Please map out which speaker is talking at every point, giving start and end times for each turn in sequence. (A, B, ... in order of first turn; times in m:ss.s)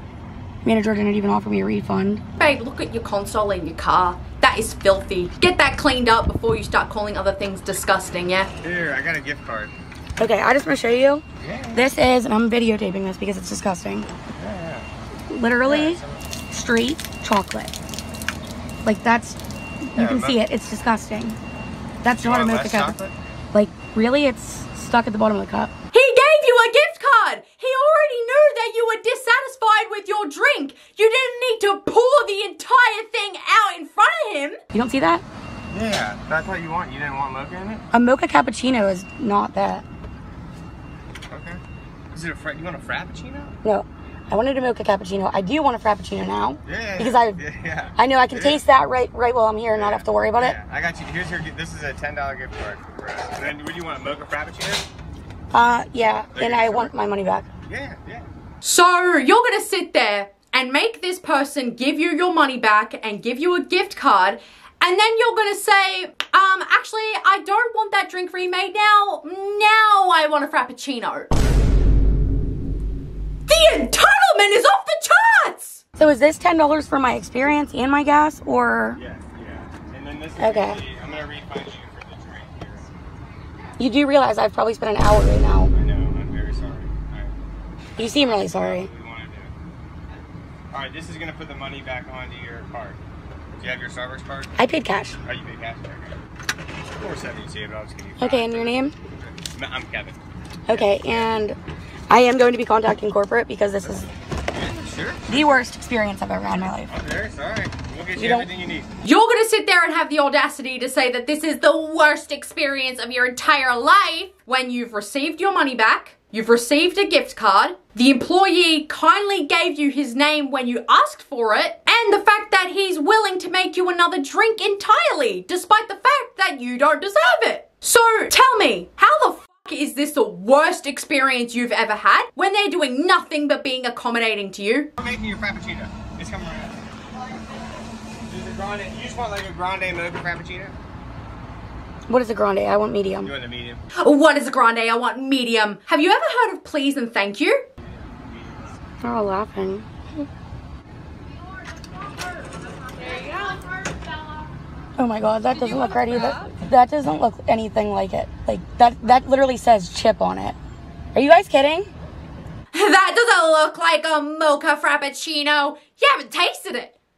0:00.6-0:02.2 A
0:02.4-0:08.5 B
0:08.6-0:09.7 C
0:10.2-0:14.1 A
0:11.4-0:11.9 C
0:14.4-0:14.9 C
0:15.3-0:16.0 A
0:15.6-0:16.2 C
0:16.5-0:17.7 A
0:18.8-0:19.4 A
0:19.9-0:21.4 A
0:20.0-0:20.4 C
0:22.0-0:23.0 A
0:22.1-0:23.2 C
0:23.5-0:25.7 A
0:25.9-0:34.6 B
0:34.7-0:35.2 A
0:35.7-0:37.9 C
0:37.9-0:39.8 A
0:41.3-0:41.6 C
0:42.1-0:43.6 C
0:43.6-0:47.4 A
0:46.6-0:48.6 C
0:48.0-0:50.6 A
0:49.7-0:54.8 C
0:55.5-0:57.5 A
0:56.3-0:57.0 C
0:57.7-0:58.3 C
0:58.6-1:11.3 B
1:13.5-1:15.8 B
1:16.0-1:19.0 A
1:19.0-1:22.9 C
1:20.4-1:20.9 A
1:23.8-1:25.7 A
1:25.7-1:27.3 C
1:28.0-1:28.9 A
1:28.0-1:29.5 C
1:30.7-1:33.0 C
1:33.6-1:34.5 C
1:34.6-1:35.2 A
1:35.2-1:36.2 C
1:36.8-1:41.4 C
1:38.2-1:38.9 A
1:40.7-1:41.6 A
1:42.1-1:44.1 A
1:44.5-1:45.6 C
1:45.3-1:47.0 A
1:46.6-1:49.0 C
1:48.2-1:48.5 A
1:49.0-2:14.9 B
2:15.0-2:16.8 C
2:18.2-2:20.8 C
2:22.1-2:23.4 A
2:23.2-2:23.8 C
2:24.0-2:27.6 B
2:27.8-2:28.8 C
2:29.0-2:29.8 A
2:35.0-2:40.6 A
2:41.1-2:41.9 A
2:42.7-2:46.9 B